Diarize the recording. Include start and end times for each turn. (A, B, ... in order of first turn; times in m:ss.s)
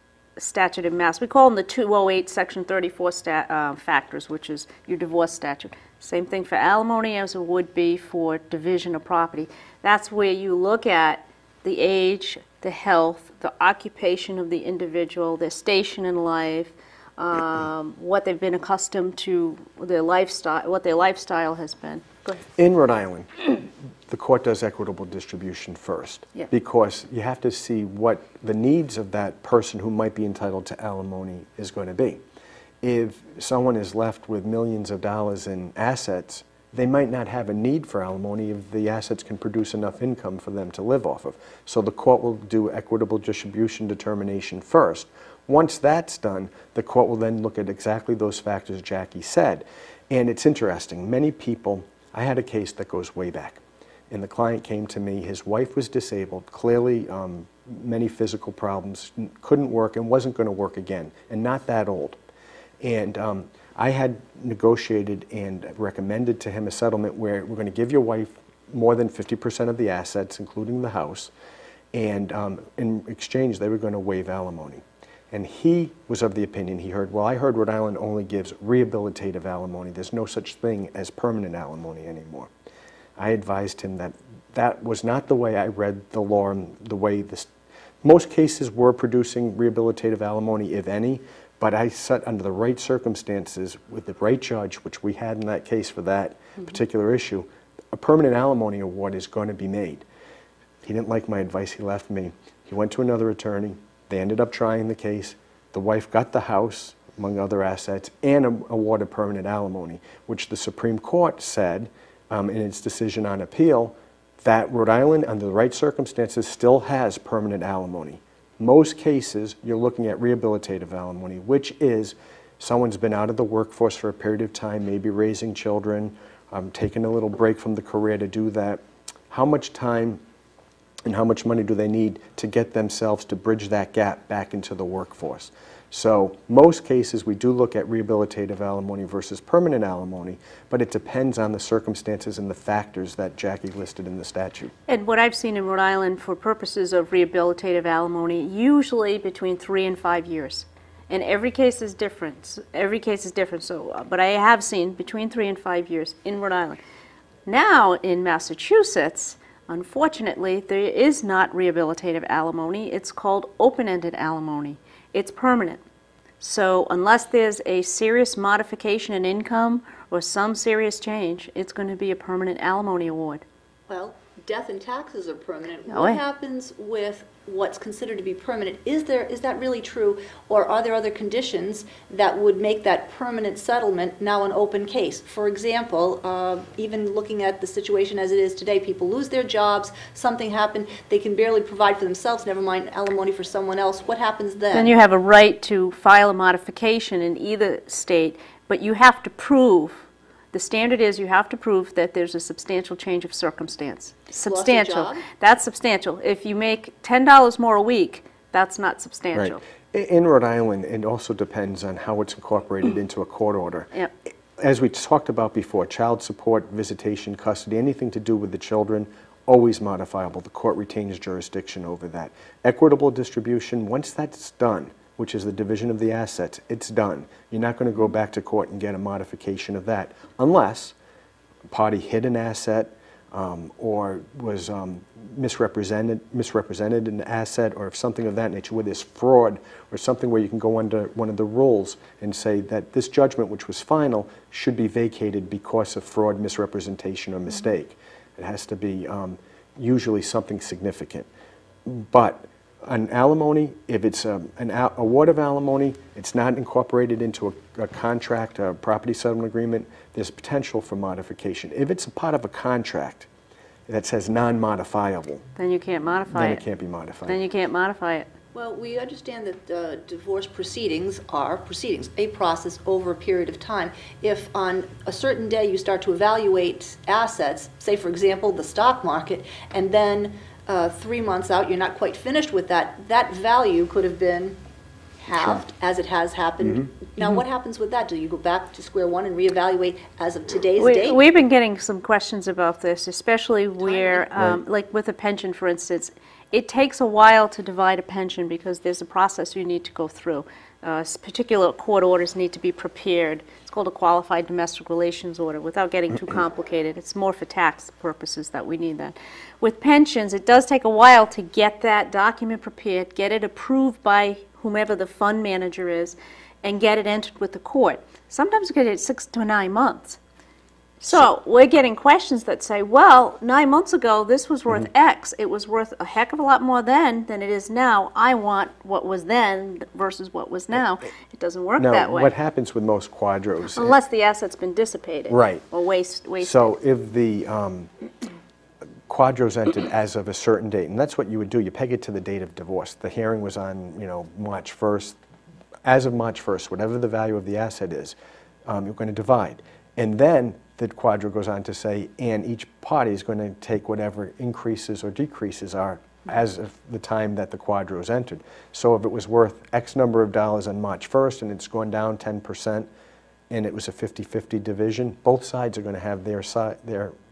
0:00.4-0:22.4 A
0:22.6-0:23.5 B
0:24.1-0:32.2 B
0:32.8-1:02.2 B
1:02.8-1:11.3 B
1:11.9-1:22.5 B
1:23.2-1:27.5 B
1:28.0-1:40.0 B
1:40.8-2:10.2 B
2:11.0-2:24.7 B
2:24.9-2:36.8 A
2:37.4-2:45.8 A
2:46.4-2:53.4 A
2:53.9-3:14.9 C
2:55.9-2:56.2 A
3:14.7-3:29.6 A
3:24.4-3:25.2 C
3:29.3-3:33.9 B
3:34.6-3:50.9 B
3:51.7-4:11.3 B
4:11.8-4:23.3 B
4:23.9-4:25.4 B
4:25.6-4:26.6 A
4:26.3-4:27.4 B
4:27.2-4:28.3 A
4:28.5-4:44.6 C
4:45.2-4:51.2 C
4:50.8-5:20.2 A
4:53.8-4:54.3 C
5:21.0-5:32.3 A
5:31.8-5:33.9 B
5:33.7-5:36.8 A
5:35.3-5:35.6 B
5:36.4-5:37.9 B
5:39.1-5:45.2 B
5:45.8-6:02.9 B
6:03.5-6:07.1 B